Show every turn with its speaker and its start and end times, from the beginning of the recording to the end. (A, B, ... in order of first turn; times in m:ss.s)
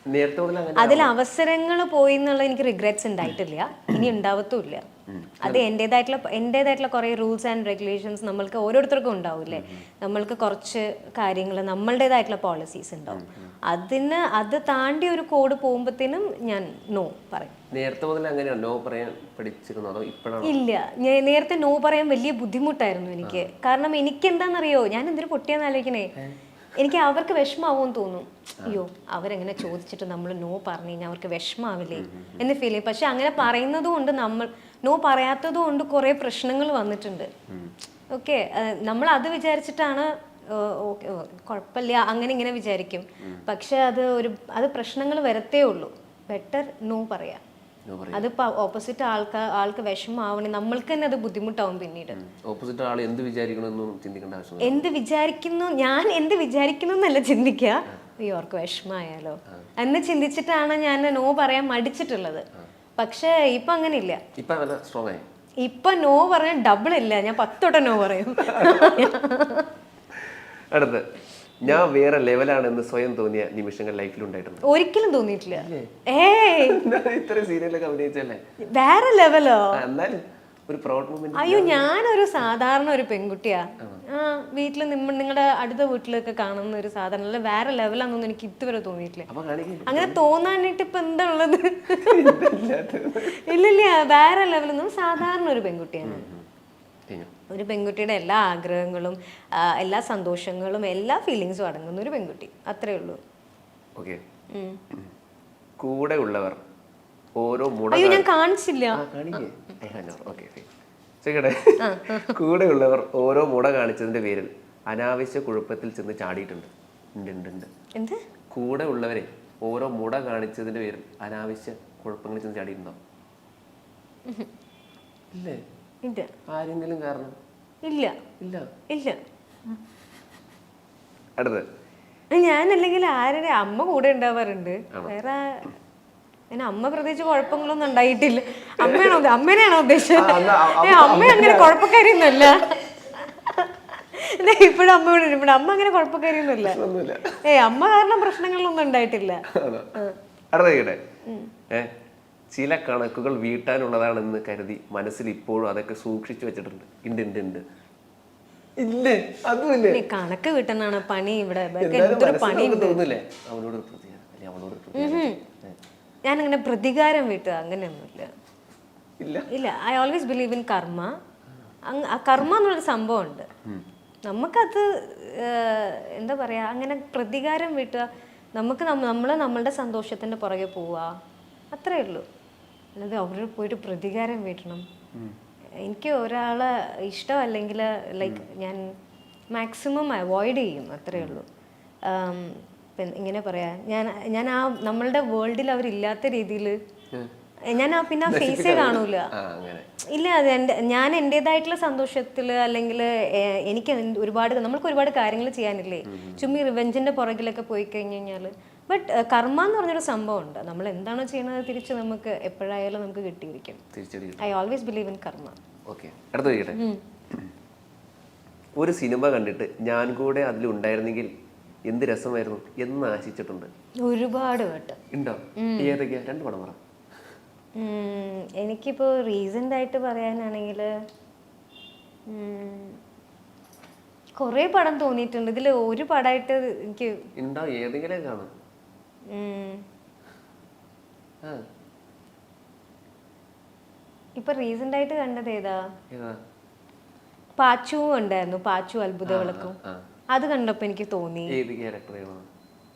0:00.1-0:01.1 A
0:00.8-0:04.9 B
0:05.1-0:05.6 A
0:05.4-0:17.6 B
0:09.5-0:09.9 A
0:13.1-0:13.6 A
0:17.7-0:20.6 A
0:20.4-0:26.1 B
0:23.2-0:23.5 A
0:26.8-0:37.3 B
0:32.0-0:32.5 A
0:38.1-0:47.4 B
0:47.9-0:48.3 A
0:48.1-0:52.2 B
0:52.2-0:54.9 A
0:54.6-1:02.4 B
1:03.0-1:04.2 B
1:04.4-1:05.2 A
1:05.6-1:09.7 B
1:08.4-1:09.1 A
1:10.2-1:11.1 A
1:11.6-1:14.6 A
1:14.6-1:16.8 B
1:15.5-1:15.9 A
1:16.5-1:18.4 A
1:18.6-1:19.8 B
1:19.7-1:21.9 A
1:21.3-1:29.3 B
1:29.3-1:30.2 A
1:29.9-1:32.4 B
1:31.9-1:33.5 A
1:33.2-1:36.3 B
1:36.0-1:36.5 A
1:37.5-1:43.2 B
1:44.0-1:44.2 A
1:44.5-1:44.8 B
1:45.8-1:46.6 A
1:47.4-1:48.3 A
1:47.9-1:49.0 B
1:49.0-1:50.7 A
1:51.2-1:57.7 A
1:51.8-1:52.4 B
1:58.0-1:58.2 B
1:58.5-2:03.0 A
2:05.3-2:05.6 A
2:06.0-2:06.3 B
2:06.5-2:07.4 A
2:07.8-2:08.2 B
2:08.4-2:08.7 A
2:08.9-2:09.2 B
2:11.4-2:11.6 A
2:12.3-2:15.7 B
2:16.5-2:26.8 B
2:18.8-2:19.2 A
2:20.1-2:21.9 A
2:26.4-2:27.4 A
2:27.4-2:29.4 B
2:29.5-2:30.0 A
2:30.5-2:31.0 A
2:31.3-2:31.5 B
2:32.5-2:37.6 A
2:38.8-2:40.1 A
2:39.9-2:43.0 B
2:41.8-2:45.8 A
2:45.0-2:45.4 B
2:46.2-2:48.3 B
2:49.2-2:49.5 A
2:49.5-2:51.1 B
2:51.9-2:53.5 B
2:54.2-3:01.2 B
3:01.7-3:02.2 B
3:03.0-3:04.8 B
3:05.8-3:08.8 B
3:09.5-3:11.4 B
3:11.2-3:11.4 A
3:12.0-3:16.8 B
3:17.6-3:19.3 B
3:18.2-3:19.9 A
3:20.1-3:33.8 B
3:26.1-3:26.6 A
3:33.9-3:34.6 A
3:34.4-3:35.6 B
3:35.9-3:36.8 A
3:36.5-3:37.0 B
3:38.8-3:41.3 A
3:41.8-3:43.7 A
3:44.0-3:45.0 B
3:45.1-3:46.8 A
3:45.6-3:46.0 B
3:47.8-3:50.9 B
3:52.3-3:53.0 B
3:54.4-3:57.2 B
3:57.4-3:58.5 A
3:59.3-3:59.8 B
4:04.4-4:05.8 B
4:06.1-4:06.4 A
4:07.6-4:09.8 B
4:09.3-4:10.0 A
4:10.3-4:11.6 B
4:11.5-4:12.5 A